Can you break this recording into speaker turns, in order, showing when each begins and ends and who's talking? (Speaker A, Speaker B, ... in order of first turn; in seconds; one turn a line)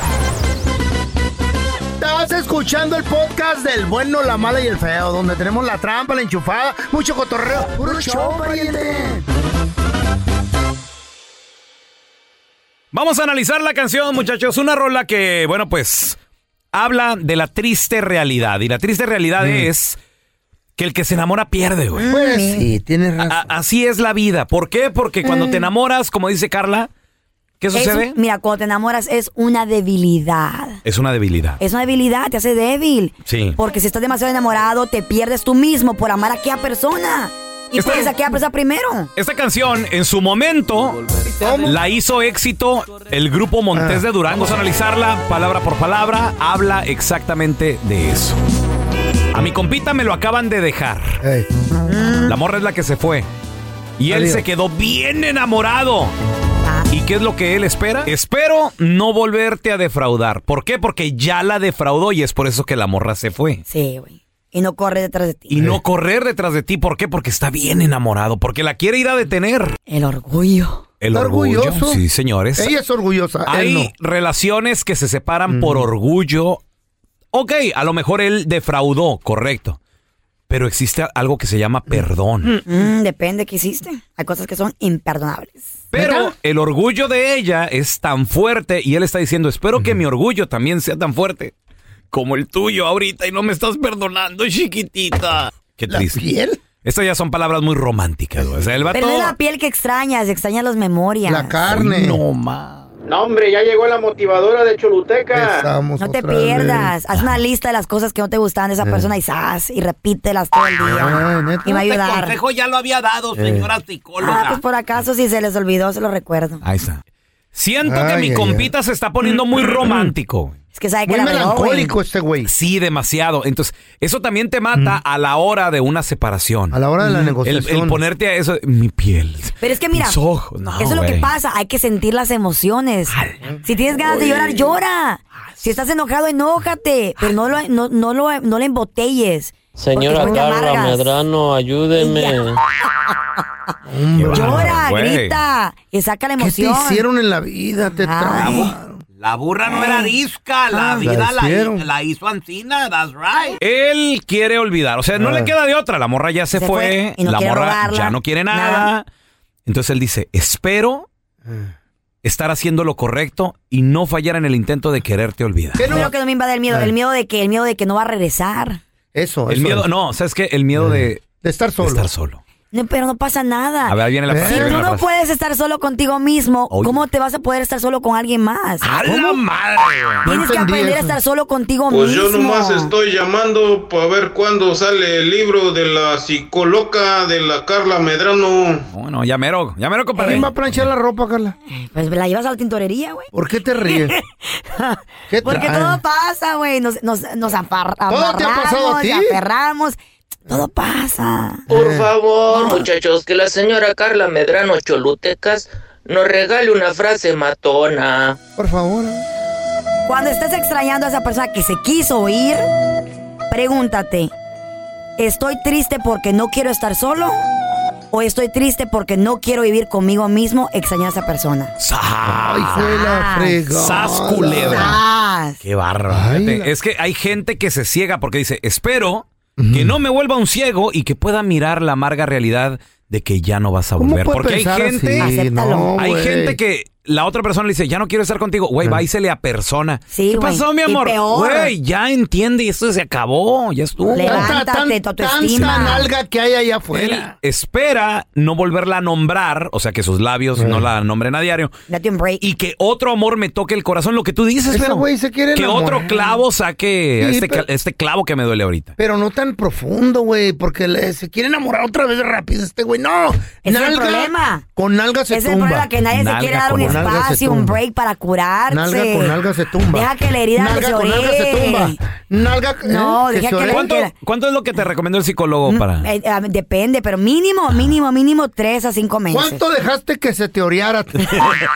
Speaker A: 2.0-9.2
Speaker B: 7.8-8.8
Speaker C: 12.9-16.2
Speaker C: 16.7-20.0
Speaker A: 19.4-19.7
Speaker C: 20.8-22.0
Speaker B: 21.9-22.7
Speaker A: 22.1-23.5
Speaker C: 23.2-26.9
Speaker B: 25.2-25.7
Speaker C: 27.6-28.1
Speaker B: 27.7-30.8
Speaker C: 30.8-31.6
Speaker B: 31.6-39.1
Speaker C: 33.2-33.6
Speaker C: 37.8-38.1
Speaker C: 39.1-48.4
Speaker A: 41.2-41.8
Speaker A: 43.7-44.1
Speaker C: 49.3-51.2
Speaker A: 51.2-51.5
Speaker B: 51.9-52.3
Speaker C: 52.2-53.3
Speaker C: 54.0-56.1
Speaker A: 54.1-54.4
Speaker B: 56.6-56.9
Speaker C: 56.9-63.6
Speaker B: 63.7-65.5
Speaker C: 65.5-69.8
Speaker B: 69.9-70.8
Speaker C: 71.0-72.7
Speaker A: 71.1-72.0
Speaker A: 72.5-73.9
Speaker C: 73.5-76.6
Speaker A: 75.5-75.9
Speaker C: 77.3-79.8
Speaker C: 80.5-82.6
Speaker A: 81.9-82.5
Speaker B: 82.6-85.7
Speaker C: 85.9-91.5
Speaker A: 85.9-86.3
Speaker C: 92.1-96.2
Speaker A: 95.9-96.6
Speaker C: 96.8-99.3
Speaker B: 98.9-101.6
Speaker A: 101.2-102.2
Speaker C: 101.7-102.9
Speaker D: 103.4-105.4
Speaker A: 105.3-106.9
Speaker B: 106.0-112.3
Speaker A: 108.8-109.1
Speaker A: 110.8-111.8
Speaker C: 111.7-114.6
Speaker A: 113.3-113.7
Speaker B: 114.2-116.6
Speaker C: 116.6-117.0
Speaker C: 117.5-120.5
Speaker A: 117.8-118.7
Speaker A: 119.3-120.1
Speaker B: 120.7-121.9
Speaker A: 121.1-122.5
Speaker C: 122.4-131.3
Speaker A: 124.7-125.0
Speaker A: 126.7-128.0
Speaker B: 129.6-130.2
Speaker B: 130.8-133.1
Speaker B: 133.6-141.1
Speaker E: 139.8-142.6
Speaker A: 140.2-140.4
Speaker B: 142.0-143.4
Speaker A: 143.9-144.8
Speaker C: 144.1-145.4
Speaker B: 144.3-147.0
Speaker A: 146.4-149.0
Speaker B: 148.0-148.7
Speaker C: 148.4-159.0
Speaker B: 149.7-150.1
Speaker B: 150.7-151.1
Speaker A: 151.0-151.8
Speaker A: 155.2-155.5
Speaker B: 156.5-158.9
Speaker C: 159.7-161.1
Speaker A: 161.4-161.7
Speaker C: 162.2-165.8
Speaker A: 165.8-166.1
Speaker B: 165.8-168.8
Speaker A: 169.1-169.9
Speaker C: 169.5-171.2
Speaker A: 170.8-172.1
Speaker C: 171.8-172.4
Speaker B: 172.7-178.9
Speaker C: 173.9-175.1
Speaker A: 174.3-174.8
Speaker C: 176.7-177.0
Speaker C: 178.8-180.2
Speaker A: 179.0-179.5
Speaker A: 180.2-181.2
Speaker B: 180.2-182.9
Speaker D: 181.9-188.8
Speaker C: 188.9-190.8
Speaker B: 190.2-190.4
Speaker A: 190.2-191.5
Speaker B: 191.7-193.3
Speaker A: 193.3-194.1
Speaker B: 193.9-200.0
Speaker A: 195.3-196.0
Speaker A: 198.1-199.4
Speaker B: 200.5-201.6
Speaker A: 201.7-202.1
Speaker F: 201.7-208.4
Speaker B: 202.5-202.8
Speaker A: 208.6-209.2
Speaker B: 210.1-212.6
Speaker B: 213.5-214.3
Speaker B: 215.2-217.4
Speaker B: 218.1-221.7
Speaker C: 221.8-222.9
Speaker A: 222.2-225.0
Speaker B: 222.7-223.6
Speaker C: 223.7-225.0
Speaker B: 224.7-225.6
Speaker C: 225.6-235.3
Speaker A: 226.1-226.7
Speaker A: 229.6-230.0
Speaker A: 234.0-236.6
Speaker B: 235.2-235.9
Speaker C: 236.0-244.5
Speaker B: 240.1-241.7
Speaker A: 244.0-247.3
Speaker B: 244.2-246.1
Speaker C: 246.9-251.7
Speaker A: 250.6-250.8
Speaker B: 251.9-252.4
Speaker C: 252.4-258.9
Speaker A: 254.7-256.4
Speaker A: 257.2-257.6
Speaker A: 259.0-265.9
Speaker B: 263.6-264.6
Speaker B: 265.3-269.4
Speaker C: 266.1-267.1
Speaker A: 266.7-267.8
Speaker A: 268.7-273.9
Speaker B: 269.9-272.0
Speaker B: 272.9-274.1
Speaker C: 273.7-276.1
Speaker B: 275.7-279.6
Speaker A: 279.3-281.5